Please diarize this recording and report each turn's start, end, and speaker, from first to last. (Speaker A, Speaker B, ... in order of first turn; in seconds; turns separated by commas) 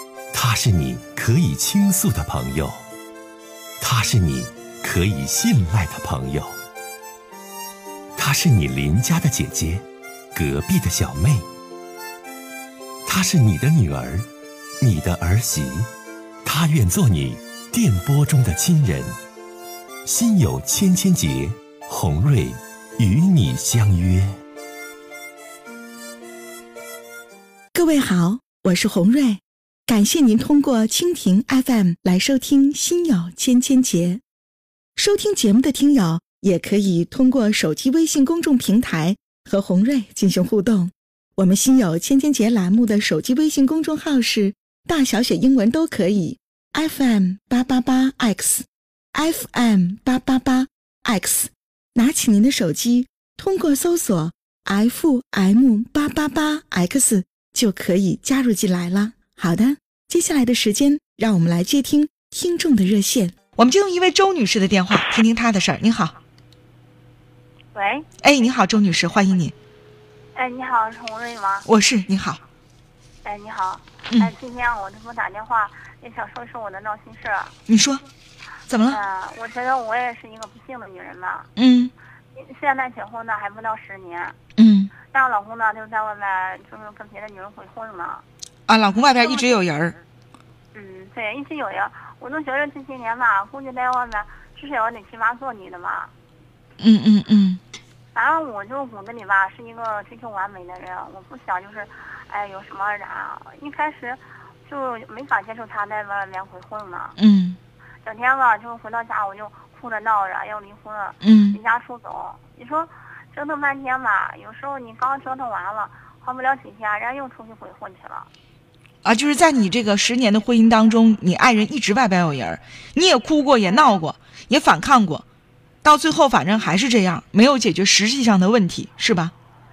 Speaker A: 0.3-2.8, Speaker A: 3.8-6.5, Speaker A: 8.2-9.8, Speaker A: 10.3-11.4, Speaker A: 13.1-14.3, Speaker A: 14.8-15.9, Speaker A: 16.4-19.1, Speaker A: 20.1-24.3, Speaker B: 27.8-28.8, Speaker C: 27.8-29.3, Speaker B: 29.9-34.2, Speaker C: 29.9-34.0, Speaker B: 35.0-48.6, Speaker C: 35.1-37.5, Speaker C: 38.6-40.7, Speaker B: 49.2-63.3, Speaker C: 49.7-50.2, Speaker C: 63.3-66.2, Speaker D: 67.7-68.1, Speaker C: 68.2-69.5, Speaker D: 70.3-71.7, Speaker C: 71.7-72.4, Speaker D: 73.2-77.5, Speaker C: 77.7-78.0, Speaker C: 78.7-79.0, Speaker D: 78.9-81.5, Speaker C: 81.5-81.9, Speaker D: 82.3-84.4, Speaker C: 84.6-84.9, Speaker D: 85.0-88.2, Speaker C: 88.7-90.0, Speaker D: 90.7-96.1, Speaker C: 96.8-97.6, Speaker D: 98.1-107.2, Speaker C: 107.2-107.6, Speaker D: 108.0-118.3, Speaker C: 111.2-111.6, Speaker C: 119.0-125.2, Speaker D: 123.7-123.9, Speaker C: 125.8-129.3